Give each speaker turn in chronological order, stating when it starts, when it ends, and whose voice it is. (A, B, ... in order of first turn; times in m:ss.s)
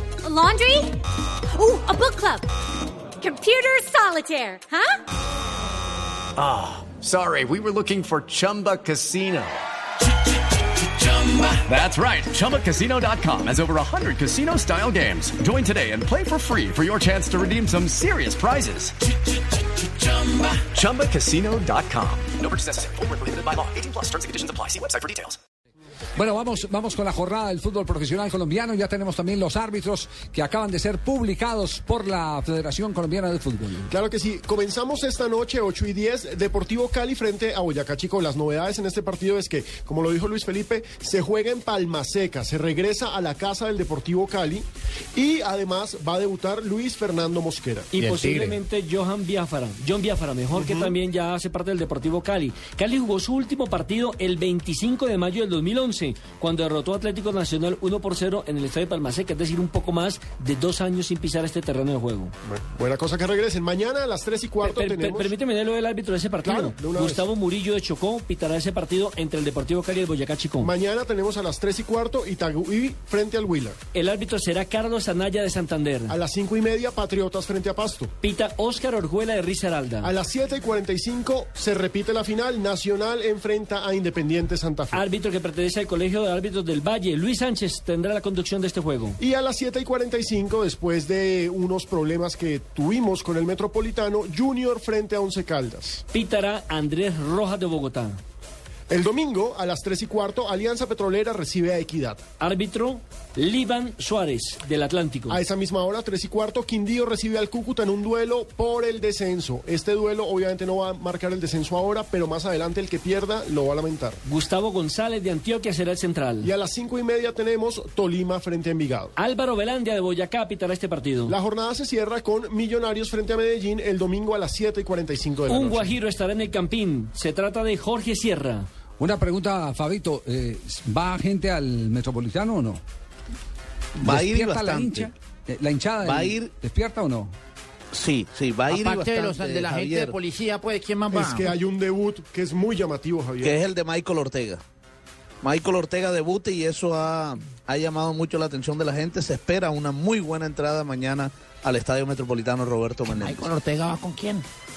0:00.2-0:01.0 A
0:01.5-0:02.5 A
0:03.2-0:05.0 A
0:06.4-0:09.6 B
0:11.0-0:19.0 B
0:20.0-0:25.4 B
0:26.2-0:33.9 C
0:33.9-0:47.9 D
0:47.9-1:02.3 E
0:48.0-0:48.6 F
0:50.5-0:50.9 D
1:02.4-1:05.3 D
1:04.6-1:10.7 E
1:06.4-1:07.3 D
1:10.6-1:13.8 D
1:13.9-1:16.2 E
1:16.1-1:18.1 D
1:18.2-1:20.1 E
1:20.0-1:25.0 D
1:24.9-1:29.2 E
1:29.2-1:36.0 D
1:36.1-1:38.2 E
1:38.9-1:42.2 D
1:42.4-1:45.4 E
1:45.3-1:54.2 D
1:54.2-1:56.5 E
1:56.4-1:59.1 D
1:59.2-2:01.4 E
2:01.3-2:06.0 D
2:05.5-2:08.7 E
2:09.0-2:12.8 C
2:14.0-2:17.3 C
2:14.0-2:15.1 G
2:16.0-2:16.5 G
2:17.9-2:20.2 G
2:18.7-2:21.5 F
2:21.1-2:23.6 D
2:23.4-2:24.6 G
2:25.4-2:33.5 G
2:33.1-2:34.4 F